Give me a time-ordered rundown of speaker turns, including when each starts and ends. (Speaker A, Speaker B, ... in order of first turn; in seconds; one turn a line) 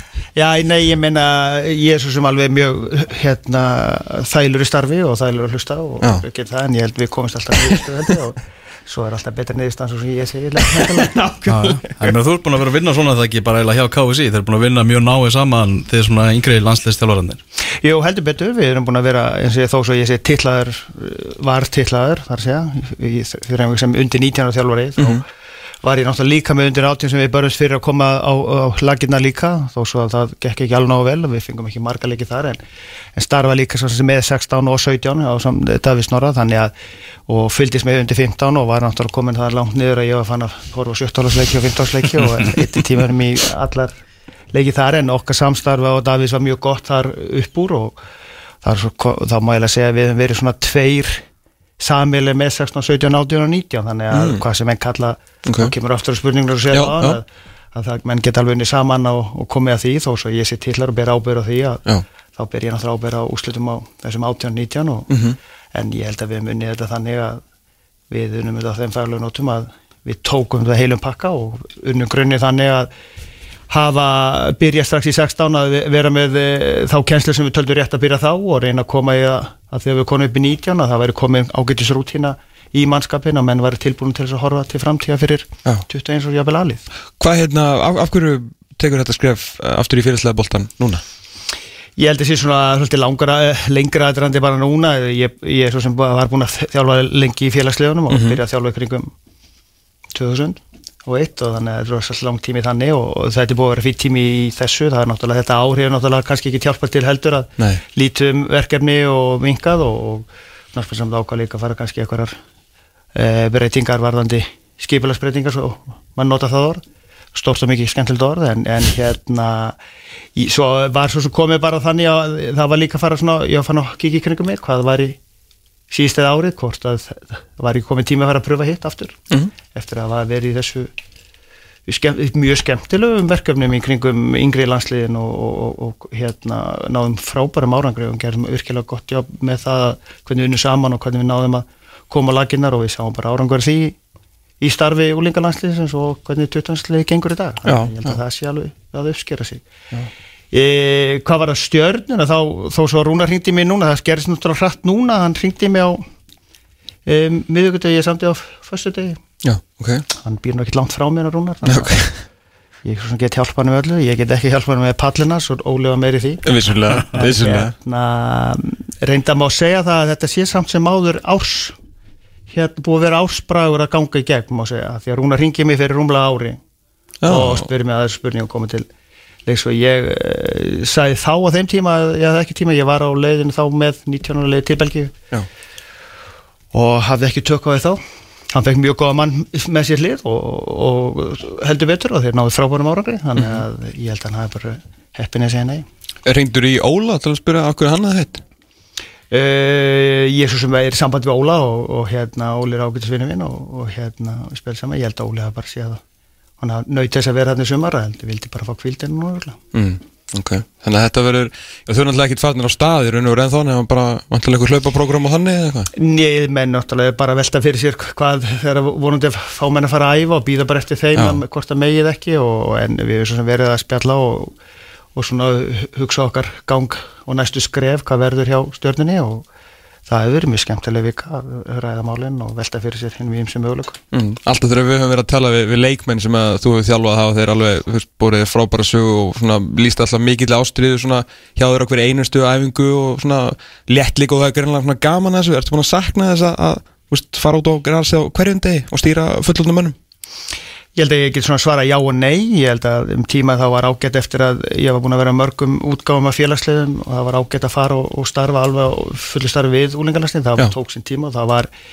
Speaker A: 0.3-11.7
Speaker B: 10.7-11.8
Speaker C: 11.5-17.4
Speaker A: 17.8-25.2
Speaker A: 25.8-32.6
Speaker A: 33.1-36.7
Speaker A: 37.3-43.9
Speaker A: 44.5-48.0
Speaker A: 48.6-51.2
Speaker A: 51.8-61.8
Speaker B: 54.1-54.4
Speaker B: 55.4-55.7
Speaker B: 56.7-57.2
Speaker A: 62.4-65.1
Speaker B: 65.1-65.4
Speaker A: 65.7-67.4
Speaker A: 68.1-72.9
Speaker A: 73.7-86.8
Speaker B: 87.2-91.0
Speaker A: 92.0-99.1
Speaker B: 98.1-98.4
Speaker A: 100.1-112.4
Speaker A: 113.1-116.8
Speaker A: 117.3-119.8
Speaker A: 120.3-125.2
Speaker A: 125.9-129.2
Speaker A: 129.7-130.9
Speaker A: 131.9-144.0
Speaker A: 144.6-149.6
Speaker B: 147.6-148.2
Speaker A: 150.5-156.0
Speaker A: 157.1-159.2
Speaker B: 159.4-160.0
Speaker A: 160.2-162.1
Speaker B: 161.6-162.2
Speaker A: 162.8-166.4
Speaker B: 166.4-167.7
Speaker A: 167.1-171.8
Speaker A: 172.5-176.6
Speaker B: 177.2-177.7
Speaker A: 177.2-178.9
Speaker A: 179.4-185.1
Speaker A: 186.7-195.8
Speaker B: 196.2-198.4
Speaker A: 199.3-206.0
Speaker A: 206.6-209.6
Speaker B: 209.7-215.9
Speaker A: 215.9-224.5
Speaker A: 225.1-229.4
Speaker A: 230.1-234.0
Speaker B: 234.1-250.0
Speaker A: 250.9-261.7